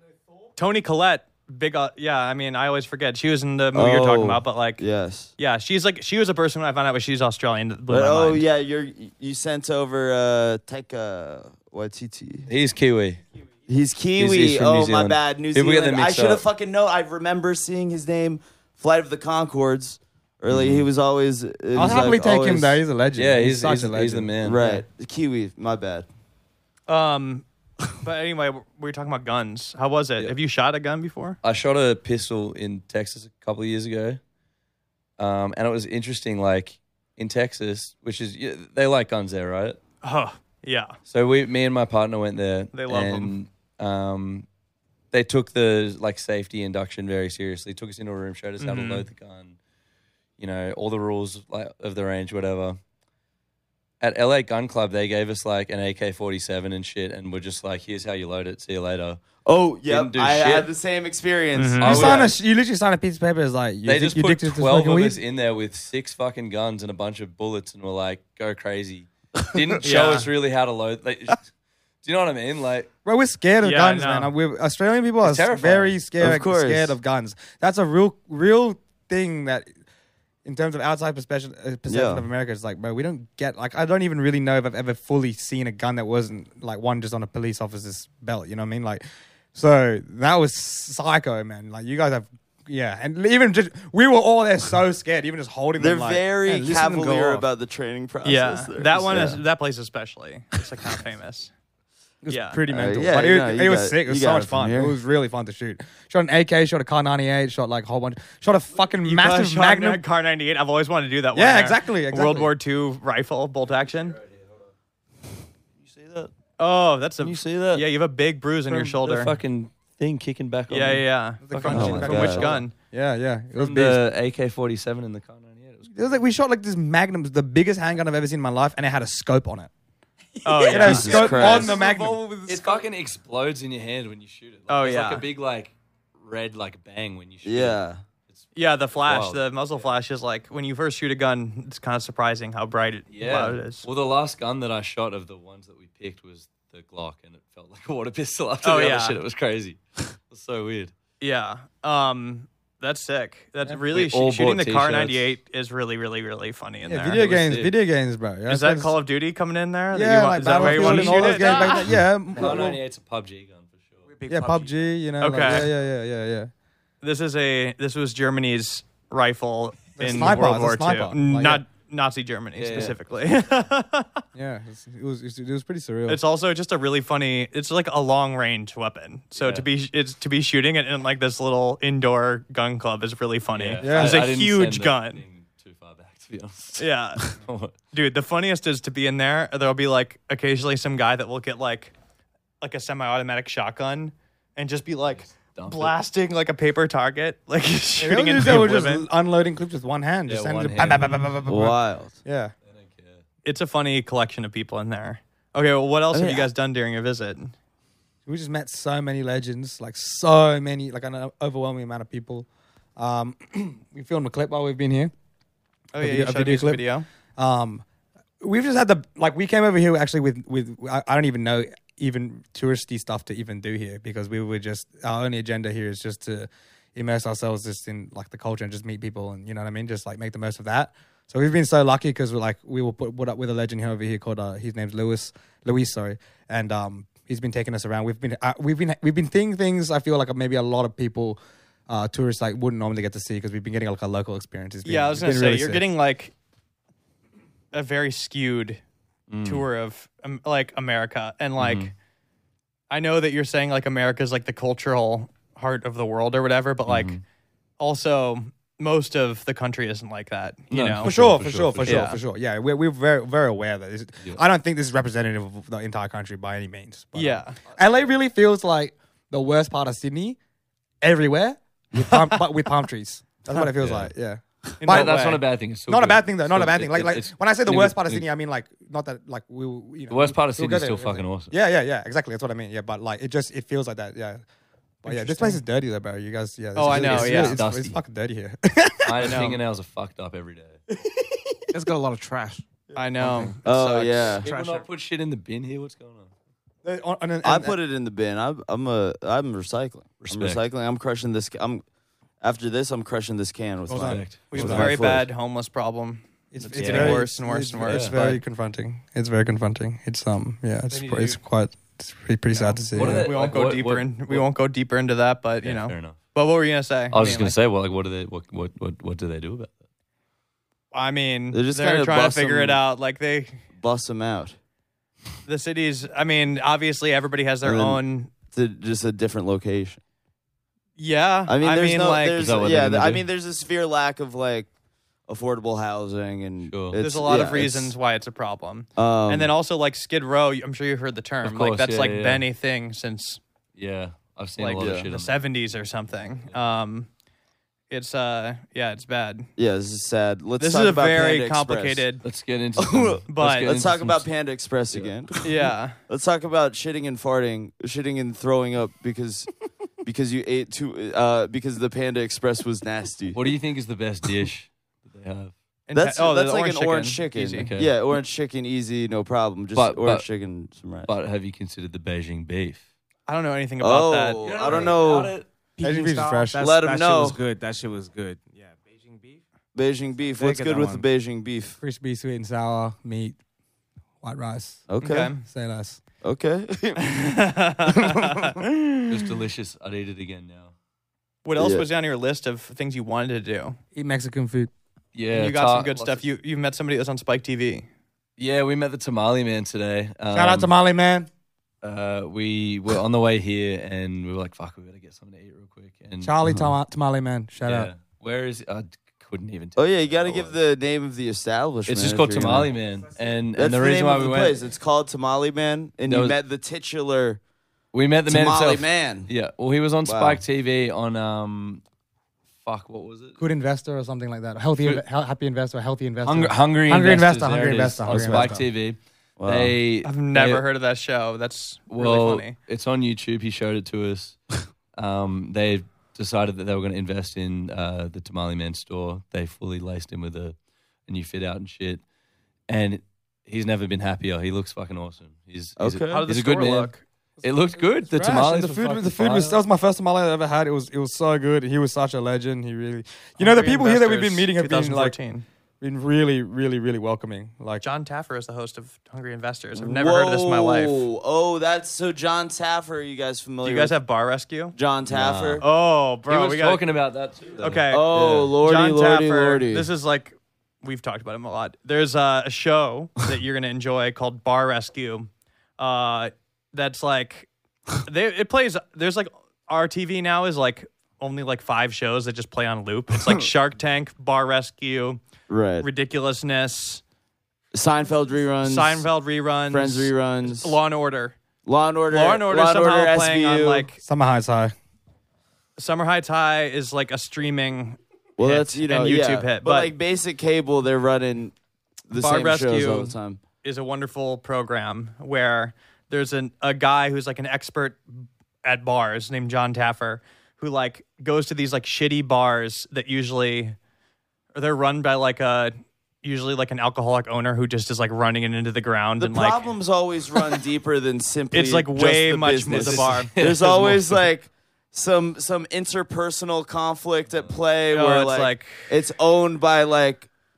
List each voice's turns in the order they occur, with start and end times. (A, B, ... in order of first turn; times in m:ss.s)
0:00.6-0:04.8 A
0:03.7-0:05.3 B
0:05.4-0:08.4 A
0:07.9-0:12.5 B
0:12.5-0:13.2 C
0:13.7-0:22.8 B
0:14.2-0:16.4 C
0:20.5-0:20.8 C
0:21.7-0:24.8 D
0:23.2-0:24.6 C
0:24.4-0:26.1 B
0:26.9-0:27.4 A
0:28.0-0:31.4 A
0:31.4-0:34.2 C
0:35.2-0:39.8 C
0:40.0-0:41.0 A
0:41.1-0:44.4 C
0:42.7-0:43.3 A
0:45.1-0:49.6 C
0:48.6-0:49.0 A
0:50.4-0:52.8 C
0:54.0-0:59.2 C
0:59.4-1:02.3 B
0:59.8-1:00.7 C
1:01.5-1:01.9 A
1:01.8-1:02.3 C
1:01.8-1:05.2 D
1:03.8-1:11.5 C
1:09.8-1:10.3 A
1:12.0-1:12.9 C
1:13.0-1:19.7 D
1:13.6-1:14.3 A
1:15.2-1:16.0 C
1:16.2-1:17.0 B
1:20.4-1:37.4 D
1:21.9-1:22.2 B
1:35.8-1:39.4 B
1:38.2-1:41.5 A
1:42.2-1:50.0 D
1:42.3-1:42.6 A
1:42.7-1:44.9 B
1:49.0-1:54.2 A
1:51.3-1:52.5 D
1:53.8-1:54.7 C
1:55.8-1:56.3 C
1:56.6-1:59.3 A
1:57.2-1:57.8 C
1:58.7-2:01.0 C
2:00.7-2:02.7 A
2:01.4-2:04.0 D
2:01.6-2:02.4 C
2:01.7-2:02.5 B
2:03.5-2:06.1 C
2:05.9-2:09.7 D
2:10.4-2:11.6 A
2:10.6-2:12.8 E
2:10.6-2:12.2 D
2:10.8-2:11.8 B
2:12.4-2:17.8 C
2:14.7-2:15.2 A
2:17.4-2:18.0 B
2:18.5-2:23.8 A
2:19.0-2:19.4 C
2:23.1-2:30.9 C
2:28.6-2:29.2 A
2:31.2-2:37.2 A
2:33.9-2:35.2 C
2:36.8-2:38.9 D
2:37.1-2:37.7 C
2:38.5-2:41.9 A
2:39.9-2:42.8 D
2:40.6-2:41.5 C
2:41.3-2:41.8 E
2:42.3-2:44.0 C
2:44.0-2:44.9 E
2:44.3-2:46.5 D
2:45.2-2:45.7 A
2:47.0-2:54.2 A
2:50.0-2:51.6 D
2:52.6-2:53.0 C
2:54.3-2:56.2 D
2:56.1-3:05.2 A
2:59.4-2:59.6 C
3:03.5-3:07.7 C
3:03.8-3:04.2 D
3:06.8-3:07.4 A
3:07.9-3:11.9 A
3:12.6-3:19.0 A
3:15.2-3:15.9 C
3:18.0-3:22.5 D
3:20.3-3:21.3 C
3:21.5-3:22.1 B
3:22.7-3:23.2 C
3:23.4-3:27.5 A
3:26.1-3:26.5 B
3:28.2-3:35.1 D
3:35.9-3:37.0 A
3:36.0-3:36.8 D
3:37.4-3:37.8 D
3:38.4-4:05.9 D
4:04.8-4:06.3 A
4:07.7-4:08.8 A
4:09.3-4:09.6 C
4:09.4-4:11.9 A
4:11.6-4:11.9 C
4:12.9-4:17.2 A
4:16.9-4:17.2 C
4:17.8-4:21.1 A
4:20.7-4:22.1 C
4:21.0-4:30.4 D
4:21.8-4:22.2 A
4:27.1-4:27.6 A
4:31.0-4:35.2 D
4:32.0-4:32.4 A
4:33.8-4:34.1 C
4:34.8-4:35.4 A
4:34.8-4:38.2 C
4:35.9-4:44.4 D
4:40.1-4:41.5 C
4:45.0-4:49.4 D
4:46.8-4:47.6 A
4:46.9-4:48.0 C
4:49.0-4:50.8 C
4:49.2-4:49.6 A
4:51.1-4:51.4 D
4:51.7-4:52.6 E
4:52.9-4:54.4 A
4:53.2-4:53.6 E
4:53.6-4:54.5 B
4:54.4-4:54.8 E
4:54.4-4:56.3 C
4:56.8-4:57.8 D
4:57.4-5:01.8 B
5:00.2-5:00.6 C
5:02.4-5:05.2 B
5:03.9-5:05.0 D
5:03.9-5:05.2 C
5:04.5-5:08.4 A
5:06.5-5:13.3 D
5:06.7-5:07.2 C
5:07.8-5:08.4 C
5:10.9-5:11.3 A
5:12.6-5:17.6 A
5:12.9-5:14.5 C
5:15.6-5:16.2 C
5:17.1-5:19.7 C
5:20.9-5:23.6 A
5:21.5-5:22.8 B
5:23.8-5:24.6 B
5:25.4-5:28.3 A
5:27.6-5:28.0 B
5:28.5-5:30.0 B
5:31.0-5:32.5 A
5:31.5-5:34.7 B
5:32.4-5:33.2 C
5:35.3-5:37.9 B
5:36.6-5:37.0 C
5:37.0-5:43.4 A
5:39.0-5:39.5 B
5:41.4-5:42.4 C
5:43.8-5:45.3 C
5:44.6-5:47.1 A
5:44.8-5:45.0 B
5:47.9-5:49.5 A
5:49.6-5:52.0 B
5:50.6-5:52.2 A
5:52.2-5:54.3 C
5:52.8-5:59.5 B
5:53.3-5:53.7 A
5:55.4-5:56.0 A
6:00.0-6:03.4 B
6:03.3-6:05.5 C
6:05.9-6:07.7 A
6:05.9-6:11.1 B
6:07.6-6:08.0 C
6:09.7-6:10.3 C
6:11.1-6:12.8 C
6:13.3-6:14.9 A
6:13.8-6:15.4 B
6:14.4-6:15.5 C
6:15.8-6:19.4 E
6:15.8-6:16.7 D
6:16.6-6:17.4 B
6:19.7-6:21.8 B
6:20.2-6:21.0 E
6:21.8-6:23.4 D
6:24.2-6:24.8 D
6:24.9-6:25.3 B
6:25.0-6:25.4 A
6:25.4-6:26.0 D
6:26.2-6:28.4 B
6:27.0-6:28.6 A
6:29.1-6:30.7 C
6:31.4-6:33.8 A
6:31.6-6:31.8 B
6:33.9-6:34.7 D
6:35.1-6:36.2 C
6:35.3-6:37.9 A
6:38.4-6:40.7 C
6:40.3-6:41.3 D
6:41.8-6:46.6 C
6:46.2-6:47.9 D
6:47.6-6:50.6 C
6:49.8-6:52.7 B
6:51.9-6:54.6 C
6:53.6-6:57.4 B
6:56.1-6:56.4 C
6:57.9-7:01.8 C
6:58.3-6:59.3 B
7:00.0-7:00.4 B
7:02.6-7:03.4 C
7:03.4-7:08.6 D
7:06.2-7:10.6 C
7:08.1-7:08.5 B
7:09.4-7:09.7 B
7:10.0-7:12.6 A
7:11.9-7:14.4 C
7:15.0-7:20.6 C
7:21.1-7:22.0 C
7:22.7-7:29.6 C
7:25.8-7:26.2 B
7:26.1-7:27.0 A
7:28.1-7:35.2 D
7:33.4-7:35.4 A
7:35.8-7:37.8 D
7:37.8-7:41.1 A
7:39.8-7:43.9 B
7:43.6-7:44.7 A
7:44.7-7:45.6 B
7:45.0-7:45.6 C
7:45.6-7:46.8 A
7:46.3-7:48.5 C
7:47.6-7:57.5 A
7:47.9-7:49.9 B
7:58.0-8:05.2 A
8:05.5-8:05.9 B
8:05.8-8:07.0 A
8:07.7-8:09.0 B
8:08.6-8:11.4 A
8:09.7-8:10.8 B
8:11.6-8:13.9 B
8:12.1-8:14.0 A
8:14.0-8:14.7 D
8:15.8-8:19.9 A
8:18.4-8:21.6 B
8:22.1-8:23.4 B
8:22.1-8:33.8 A
8:34.5-8:39.7 A
8:39.2-8:50.3 B
8:41.5-8:43.3 A
8:42.6-8:44.2 C
8:47.9-8:48.9 A